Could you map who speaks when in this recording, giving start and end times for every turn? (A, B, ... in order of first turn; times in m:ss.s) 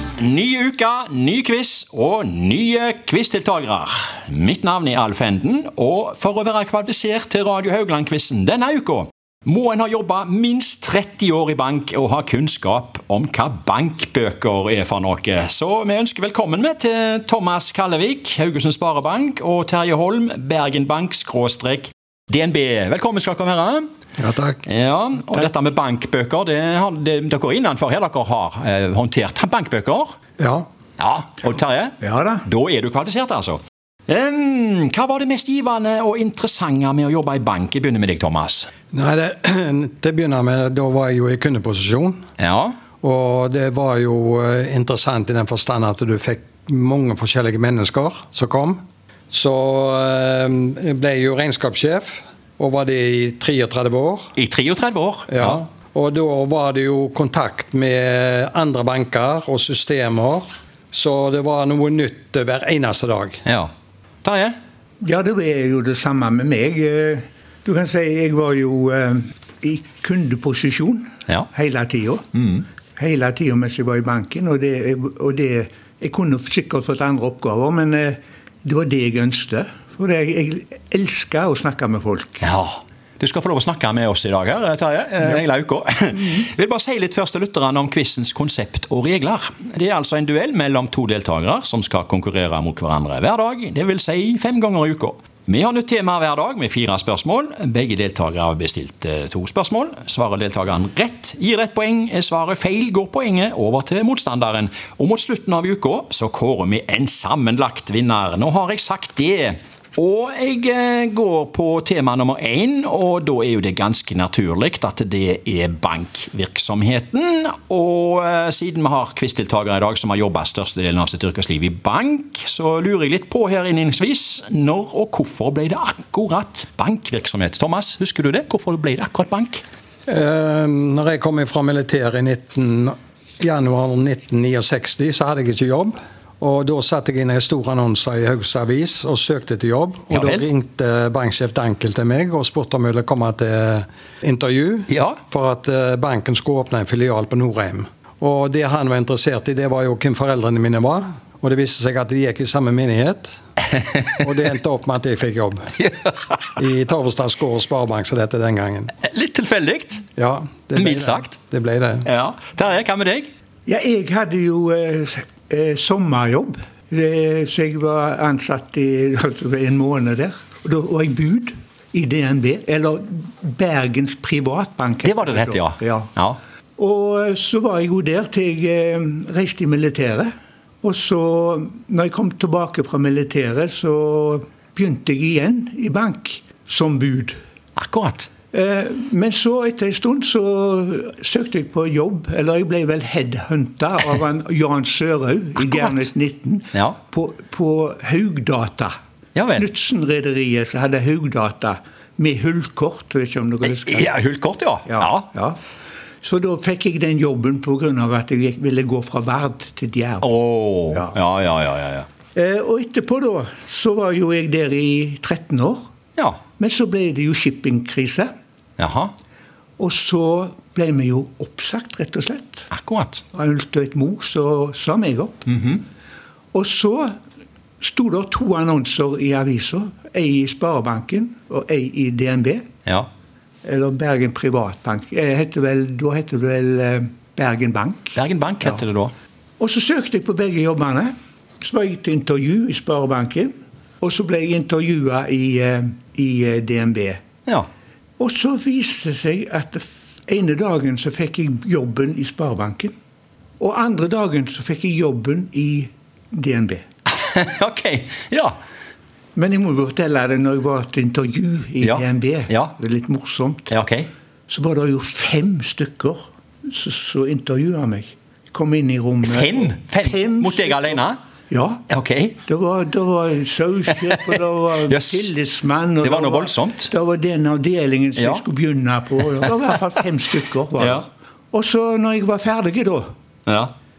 0:00.2-0:23.9 A
0:24.2-0:24.6 B
0:24.7-0:30.2 A
0:30.4-0:30.7 B
0:31.0-0:38.7 A
0:32.0-0:32.4 C
0:38.9-0:42.2 B
0:42.4-0:42.8 A
0:43.0-0:54.3 B
0:54.4-0:55.6 A
0:55.3-1:03.4 B
1:03.4-1:03.7 A
1:04.2-1:04.6 A
1:05.0-1:12.3 C
1:12.3-1:12.6 A
1:13.0-1:22.5 C
1:22.4-2:09.6 A
2:10.1-2:33.4 B
2:20.1-2:20.5 A
2:24.9-2:25.2 A
2:34.2-2:35.7 B
2:35.8-2:36.3 A
2:36.6-2:38.9 B
2:39.0-2:40.0 A
2:40.2-2:42.1 B
2:40.8-2:41.4 A
2:42.0-2:43.3 A
2:43.7-2:56.1 C
2:55.0-2:56.4 A
2:56.8-3:00.3 C
3:00.8-3:07.4 C
3:07.8-3:08.3 A
3:08.5-3:18.9 C
3:15.7-3:16.0 A
3:19.4-3:19.7 A
3:19.6-3:24.1 C
3:23.6-3:25.3 A
3:24.9-3:25.6 C
3:26.2-3:30.3 C
3:30.2-3:32.1 A
3:32.4-3:35.9 C
3:36.6-3:38.3 C
3:38.8-3:39.1 A
3:39.8-3:42.7 C
3:42.7-3:43.2 A
3:43.3-3:45.5 C
3:45.5-3:45.8 A
3:46.5-3:47.2 C
3:47.8-3:52.7 C
3:53.6-3:58.2 C
3:58.2-3:59.1 A
3:59.6-4:07.2 C
4:08.2-4:12.9 C
4:13.6-4:16.8 C
4:17.1-4:18.6 A
4:19.4-4:23.7 C
4:21.8-4:22.7 A
4:23.7-4:24.1 A
4:24.5-4:31.8 C
4:29.2-4:31.2 A
4:31.9-4:32.4 A
4:32.4-4:43.1 C
4:33.9-4:34.3 A
4:34.9-4:35.3 A
4:36.0-4:36.9 A
4:38.2-4:38.4 A
4:40.8-4:41.0 A
4:43.5-4:43.7 A